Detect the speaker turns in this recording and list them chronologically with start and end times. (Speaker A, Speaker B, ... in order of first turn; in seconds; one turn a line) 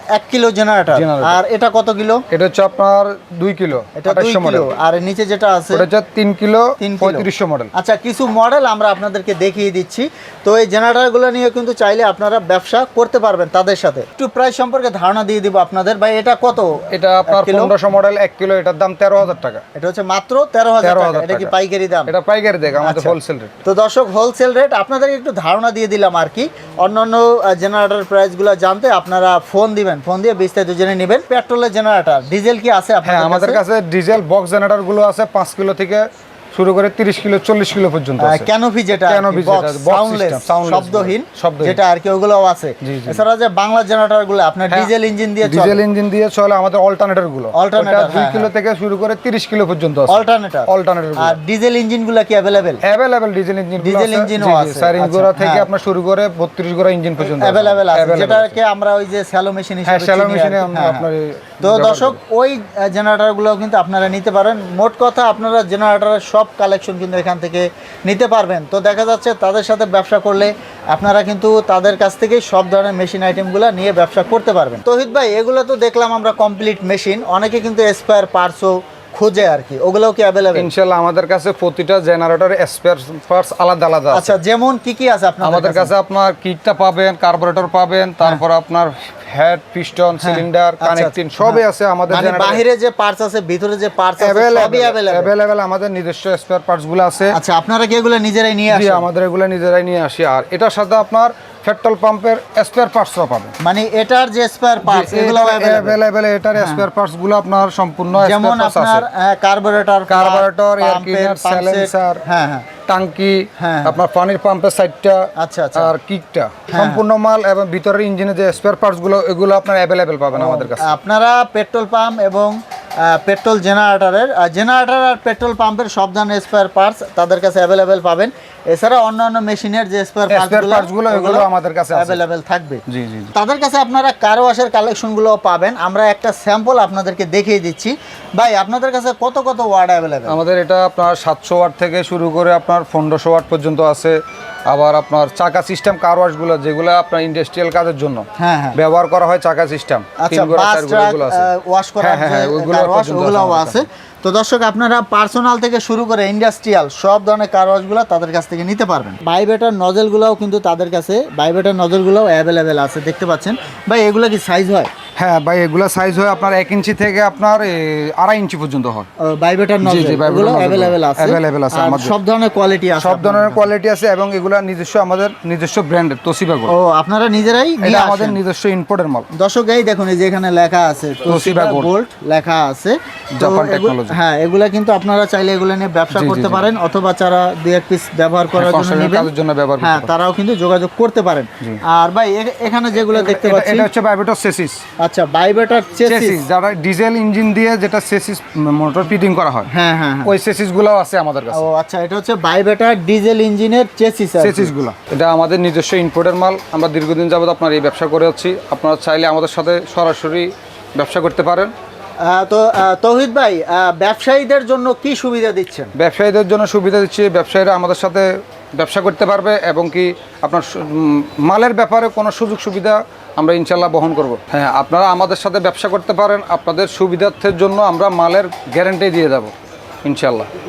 Speaker A: 0.1-2.2
Speaker B: 0.9-1.4
Speaker B: 2.3-4.7
Speaker A: 4.0-5.8
Speaker B: 5.7-7.7
Speaker A: 6.8-17.7
Speaker B: 16.9-19.6
Speaker A: 19.7-22.1
Speaker B: 20.8-21.5
Speaker B: 22.1-23.5
Speaker A: 22.8-33.6
Speaker B: 33.0-41.8
Speaker A: 38.2-45.8
Speaker B: 42.8-43.2
Speaker B: 45.4-51.4
Speaker A: 47.5-48.5
Speaker A: 50.1-52.8
Speaker B: 52.8-58.6
Speaker A: 53.8-55.7
Speaker A: 57.2-61.0
Speaker B: 59.9-62.2
Speaker A: 61.6-80.7
Speaker B: 80.5-84.3
Speaker A: 84.1-85.9
Speaker B: 85.4-92.6
Speaker A: 90.2-95.3
Speaker B: 94.2-97.4
Speaker A: 97.3-99.0
Speaker B: 98.7-103.5
Speaker A: 103.6-106.0
Speaker B: 104.8-109.0
Speaker A: 106.6-106.8
Speaker A: 108.2-112.7
Speaker B: 110.1-112.2
Speaker B: 112.9-121.0
Speaker A: 113.6-114.0
Speaker A: 115.4-115.9
Speaker A: 116.7-117.0
Speaker A: 120.3-132.8
Speaker B: 130.3-132.2
Speaker B: 132.9-133.3
Speaker A: 133.3-140.4
Speaker B: 140.3-151.5
Speaker A: 148.4-148.8
Speaker A: 150.2-164.9
Speaker B: 152.0-153.8
Speaker B: 165.2-169.1
Speaker A: 169.2-173.7
Speaker B: 169.8-172.1
Speaker B: 173.0-176.7
Speaker A: 176.7-178.4
Speaker B: 177.8-179.3
Speaker A: 179.3-193.9
Speaker B: 181.2-181.9
Speaker B: 183.3-184.2
Speaker B: 186.1-186.7
Speaker B: 188.5-190.1
Speaker B: 193.1-194.8
Speaker A: 195.0-196.4
Speaker B: 196.1-199.7
Speaker A: 199.7-200.3
Speaker B: 200.2-201.7
Speaker A: 201.5-204.7
Speaker B: 204.4-211.7
Speaker A: 212.2-215.9
Speaker B: 215.9-229.5
Speaker B: 230.0-230.5